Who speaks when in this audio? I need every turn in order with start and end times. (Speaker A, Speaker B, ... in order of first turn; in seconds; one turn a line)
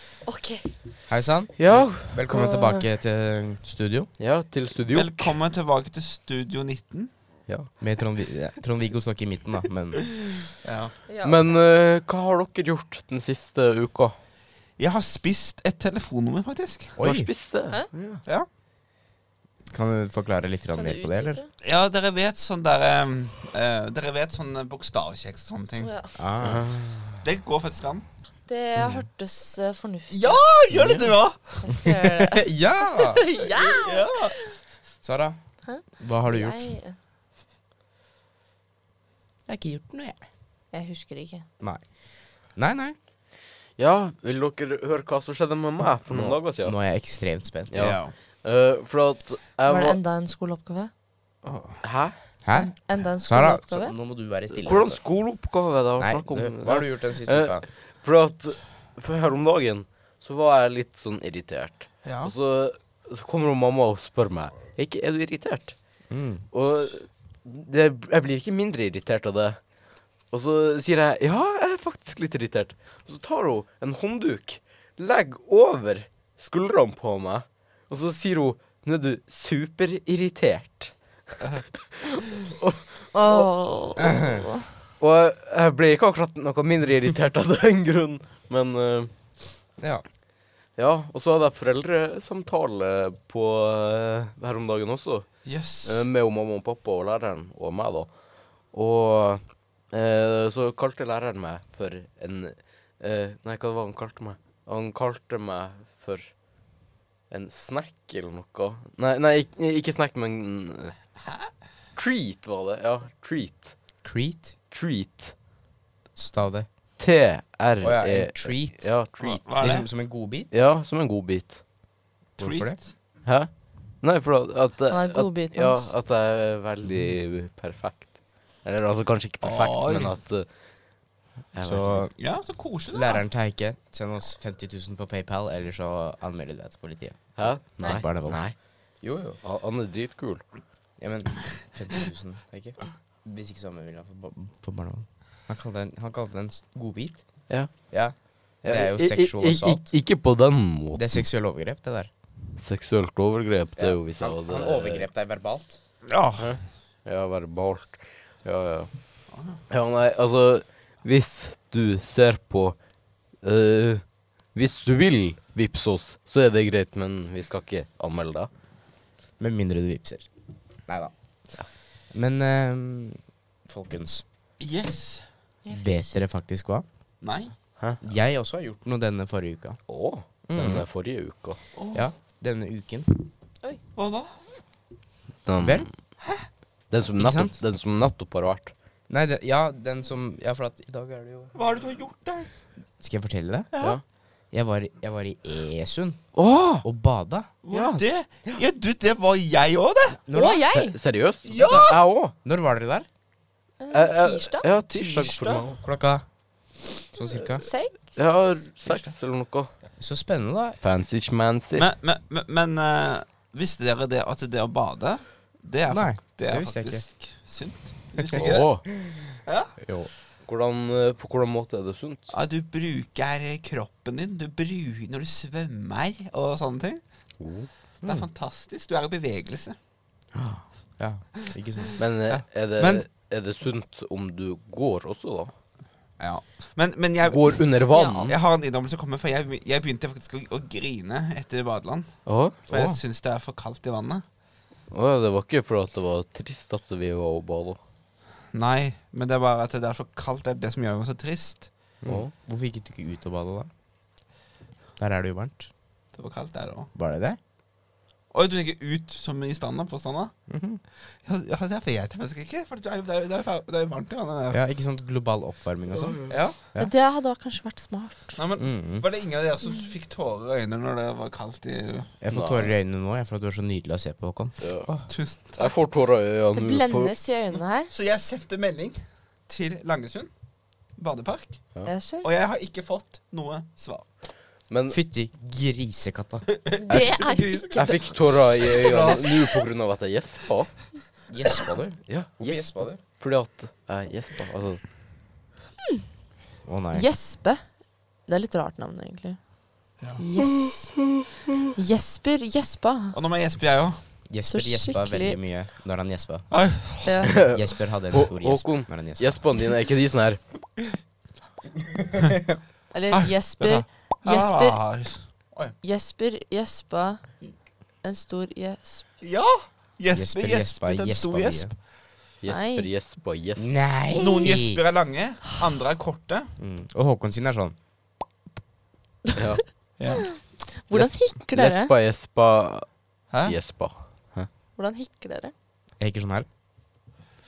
Speaker A: 0.3-0.7
Speaker B: 1.1-4.1
Speaker C: 1.6-2.9
Speaker C: 4.2-5.3
Speaker D: 4.9-7.1
Speaker B: 7.8-10.4
Speaker D: 10.6-10.9
Speaker A: 11.1-11.5
Speaker C: 11.2-14.2
Speaker D: 14.8-16.9
Speaker B: 17.0-17.3
Speaker C: 17.0-18.2
Speaker B: 19.7-21.4
Speaker A: 20.7-21.5
Speaker D: 21.6-25.9
Speaker A: 25.8-26.1
Speaker B: 26.2-27.1
Speaker C: 26.4-27.1
Speaker D: 27.2-28.1
Speaker A: 28.5-30.4
Speaker B: 28.8-29.1
Speaker D: 30.1-31.7
Speaker C: 30.7-31.1
Speaker A: 31.6-34.5
Speaker B: 32.3-33.3
Speaker D: 33.6-34.4
Speaker B: 35.0-35.4
Speaker A: 35.6-37.0
Speaker B: 36.0-36.7
Speaker B: 39.5-40.2
Speaker A: 40.7-41.5
Speaker B: 41.6-41.9
Speaker B: 42.5-43.0
Speaker C: 43.8-46.8
Speaker B: 46.1-48.0
Speaker C: 47.7-50.0
Speaker D: 47.8-48.1
Speaker A: 49.7-50.9
Speaker D: 51.4-51.8
Speaker C: 51.8-52.2
Speaker B: 52.4-55.0
Speaker A: 52.5-54.0
Speaker C: 54.6-65.8
Speaker B: 56.0-57.6
Speaker D: 62.0-62.3
Speaker B: 66.1-66.5
Speaker C: 66.5-69.6
Speaker C: 70.3-80.9
Speaker C: 81.7-83.5
Speaker A: 83.1-84.7
Speaker B: 84.0-84.4
Speaker C: 85.0-89.1
Speaker B: 89.8-90.0
Speaker C: 90.8-98.1
Speaker D: 95.5-96.1
Speaker C: 98.7-106.4
Speaker C: 107.3-111.0
Speaker C: 112.0-113.8
Speaker B: 114.0-114.6
Speaker C: 114.7-115.3
Speaker B: 116.2-116.7
Speaker C: 117.0-119.8
Speaker B: 117.8-118.9
Speaker D: 119.3-119.9
Speaker B: 119.5-120.5
Speaker C: 120.5-121.6
Speaker D: 122.4-122.9
Speaker B: 122.4-122.8
Speaker C: 123.2-123.5
Speaker C: 124.0-130.5
Speaker A: 124.9-125.9
Speaker D: 129.4-130.1
Speaker C: 131.5-132.1
Speaker B: 131.6-132.1
Speaker D: 132.2-133.2
Speaker B: 132.9-138.4
Speaker C: 137.4-138.6
Speaker B: 139.0-139.4
Speaker C: 139.4-140.4
Speaker B: 141.0-149.9
Speaker C: 147.5-147.9
Speaker C: 148.6-151.2
Speaker B: 150.9-152.1
Speaker C: 152.6-155.1
Speaker B: 153.8-155.8
Speaker D: 156.1-156.5
Speaker C: 156.4-158.9
Speaker D: 159.3-159.6
Speaker C: 159.7-162.8
Speaker C: 163.4-168.5
Speaker B: 169.4-170.3
Speaker B: 170.9-171.1
Speaker B: 172.1-174.2
Speaker D: 174.6-175.3
Speaker A: 175.6-176.2
Speaker B: 175.7-176.8
Speaker D: 177.2-177.5
Speaker B: 178.0-179.8
Speaker C: 179.9-181.6
Speaker B: 180.4-180.9
Speaker D: 181.8-182.0
Speaker B: 181.9-183.2
Speaker D: 183.9-184.4
Speaker C: 185.5-185.9
Speaker B: 185.6-185.9
Speaker C: 186.9-188.7
Speaker B: 187.2-187.6
Speaker B: 189.1-191.6
Speaker D: 191.5-192.5
Speaker B: 193.0-193.7
Speaker D: 193.7-194.0
Speaker B: 194.5-196.3
Speaker C: 196.3-196.8
Speaker B: 196.8-197.5
Speaker D: 197.6-200.2
Speaker C: 197.7-198.6
Speaker B: 200.2-200.9
Speaker A: 200.3-201.0
Speaker C: 200.9-202.3
Speaker D: 201.5-202.0
Speaker B: 201.6-203.1
Speaker A: 203.8-204.7
Speaker C: 203.9-205.7
Speaker D: 204.9-205.8
Speaker B: 205.8-206.2
Speaker B: 207.1-207.7
Speaker A: 207.6-208.0
Speaker C: 208.2-209.7
Speaker D: 208.8-209.1
Speaker B: 210.0-210.8
Speaker C: 210.8-211.9
Speaker D: 211.8-218.7
Speaker B: 215.9-217.1
Speaker C: 218.3-218.8
Speaker D: 219.4-219.7
Speaker B: 219.8-220.1
Speaker C: 220.4-222.3
Speaker D: 222.3-227.0
Speaker C: 227.4-227.7
Speaker D: 228.0-229.8
Speaker B: 230.3-232.0
Speaker C: 232.0-235.5
Speaker D: 232.3-233.0
Speaker D: 236.2-244.2
Speaker C: 237.2-238.4
Speaker A: 237.9-238.3
Speaker C: 242.3-242.6
Speaker B: 242.7-243.0
Speaker C: 244.9-247.8
Speaker D: 248.5-251.7
Speaker B: 252.0-253.7
Speaker C: 252.1-252.3
Speaker B: 255.0-255.7
Speaker D: 256.1-256.9
Speaker B: 256.9-257.4
Speaker D: 258.3-260.3
Speaker B: 260.5-260.8
Speaker D: 261.2-264.6
Speaker B: 264.5-266.9
Speaker C: 265.9-266.4
Speaker D: 266.3-266.6
Speaker A: 266.8-268.4
Speaker D: 268.4-272.1
Speaker B: 268.6-269.1
Speaker B: 272.2-275.1
Speaker C: 272.3-272.7
Speaker C: 274.6-274.9
Speaker D: 275.1-275.7
Speaker C: 275.6-277.1
Speaker A: 276.6-277.9
Speaker D: 277.5-280.3
Speaker D: 281.0-281.6
Speaker A: 281.9-282.3
Speaker D: 282.2-284.1
Speaker C: 284.7-285.0
Speaker B: 284.9-287.2
Speaker D: 286.7-287.7
Speaker A: 286.8-288.2
Speaker C: 287.8-290.8
Speaker D: 288.6-289.6
Speaker B: 291.3-293.0
Speaker C: 292.1-294.8
Speaker B: 296.6-297.1
Speaker A: 296.9-297.7
Speaker A: 298.3-299.4
Speaker A: 300.2-300.9
Speaker A: 301.8-303.2
Speaker D: 303.1-304.0
Speaker B: 304.3-306.5
Speaker A: 304.5-305.4
Speaker D: 306.5-307.3
Speaker A: 307.0-307.3
Speaker C: 307.2-310.4
Speaker B: 307.3-309.5
Speaker A: 312.9-314.8
Speaker D: 313.1-315.8
Speaker A: 315.8-317.3
Speaker A: 318.0-319.1
Speaker D: 319.2-321.7
Speaker B: 320.1-321.7
Speaker C: 322.4-323.9
Speaker A: 322.5-322.9
Speaker B: 323.6-324.8
Speaker A: 324.1-324.5
Speaker D: 324.2-326.5
Speaker B: 326.6-327.8
Speaker C: 329.4-329.6
Speaker D: 330.0-330.3
Speaker A: 330.8-331.9
Speaker C: 331.5-332.9
Speaker D: 333.3-333.6
Speaker C: 333.4-334.5
Speaker A: 334.8-335.5
Speaker B: 336.0-336.5